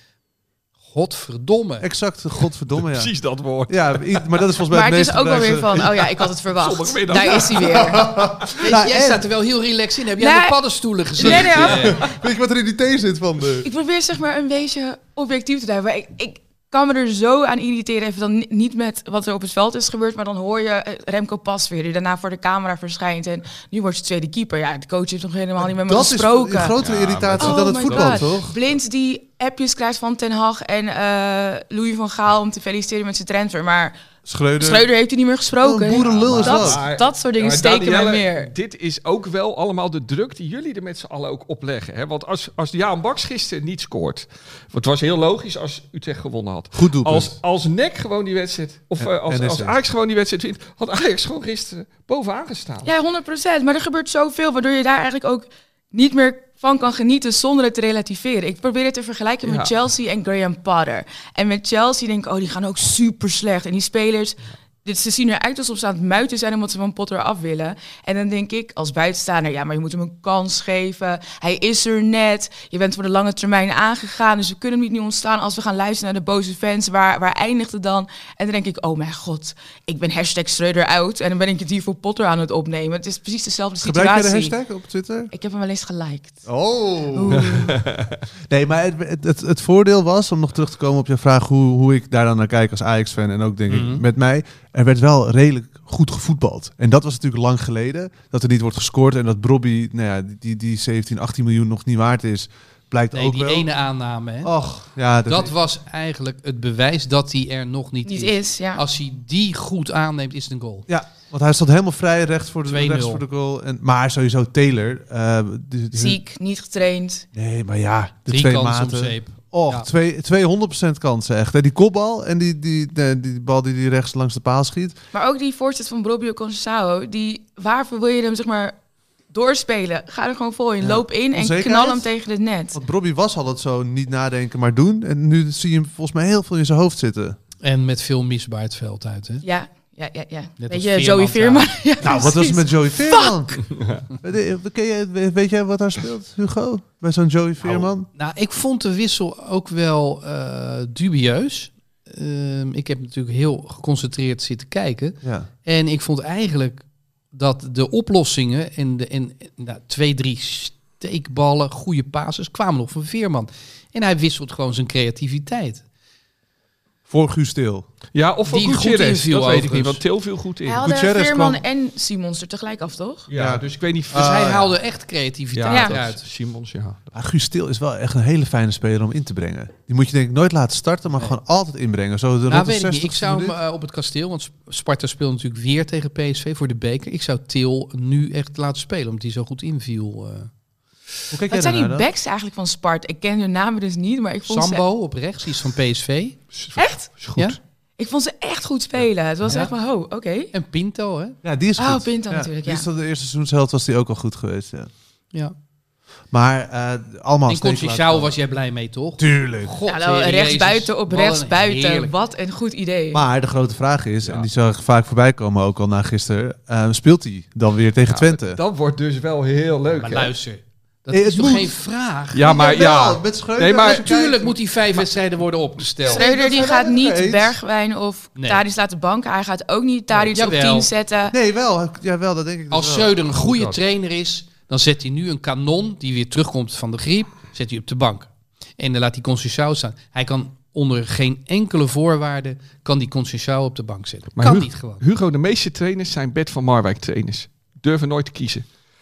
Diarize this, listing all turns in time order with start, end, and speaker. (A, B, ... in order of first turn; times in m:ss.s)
0:00.9-0:01.9 A
0:01.8-0:03.1 B
0:02.8-0:04.4 C
0:03.7-0:06.1 B
0:04.7-0:08.4 D
0:06.5-0:08.1 C
0:07.7-0:09.3 B
0:08.6-0:12.0 A
0:10.2-0:10.6 D
0:11.2-0:12.2 D
0:11.3-0:13.7 B
0:13.6-0:26.8 D
0:25.6-0:28.6 B
0:26.8-0:28.4 C
0:27.4-0:34.0 D
0:34.2-0:34.9 B
0:34.6-0:38.5 D
0:35.6-0:36.8 B
0:36.0-0:52.9 C
0:46.8-0:47.4 B
0:49.0-0:49.8 B
0:52.8-1:24.6 D
0:59.4-0:59.7 C
1:23.8-1:25.3 B
1:25.3-1:26.4 D
1:26.5-1:27.8 B
1:27.1-1:27.8 D
1:27.5-1:28.2 C
1:28.5-1:43.7 B
1:33.7-1:34.0 A
1:43.1-1:44.5 A
1:44.4-1:45.5 B
1:45.3-1:50.9 A
1:48.1-1:48.8 D
1:50.9-1:56.2 B
1:52.7-1:53.2 A
1:55.9-1:57.3 D
1:57.3-2:05.0 B
1:58.3-1:59.9 A
2:05.1-2:08.7 D
2:09.3-2:12.8 D
2:10.8-2:12.1 B
2:12.7-2:17.4 B
2:17.6-2:19.4 A
2:19.4-2:23.6 D
2:20.6-2:21.8 A
2:22.0-2:28.1 B
2:27.7-2:45.8 A
2:35.2-2:35.5 B
2:47.1-2:47.8 B
2:48.1-2:50.8 C
2:48.5-2:50.0 A
2:50.7-2:53.3 D
2:50.8-2:51.6 B
2:53.3-2:54.6 C
2:53.3-2:54.7 B
2:54.1-2:56.2 A
2:55.6-2:57.1 C
2:55.7-2:56.0 D
2:57.1-3:03.6 B
3:02.5-3:10.5 A
3:11.3-3:12.1 B
3:11.5-3:14.8 D
3:14.5-3:16.4 A
3:16.5-3:17.6 C
3:16.8-3:17.1 D
3:18.0-3:20.5 D
3:19.4-3:19.7 A
3:20.5-3:21.4 A
3:21.4-3:24.9 B
3:21.8-3:22.8 D
3:26.3-3:28.4 B
3:27.5-3:32.1 A
3:29.2-3:29.7 B
3:29.9-3:33.2 D
3:33.1-3:38.6 B
3:38.1-3:40.3 C
3:39.9-3:42.5 A
3:41.1-3:41.8 B
3:42.3-3:44.1 C
3:42.4-3:44.6 B
3:43.8-3:46.3 A
3:46.0-3:47.6 B
3:46.1-3:51.4 D
3:48.4-3:48.6 A
3:50.1-3:50.9 A
3:51.3-3:53.2 B
3:52.7-4:05.0 A
3:53.4-3:53.8 C
4:04.4-4:08.7 C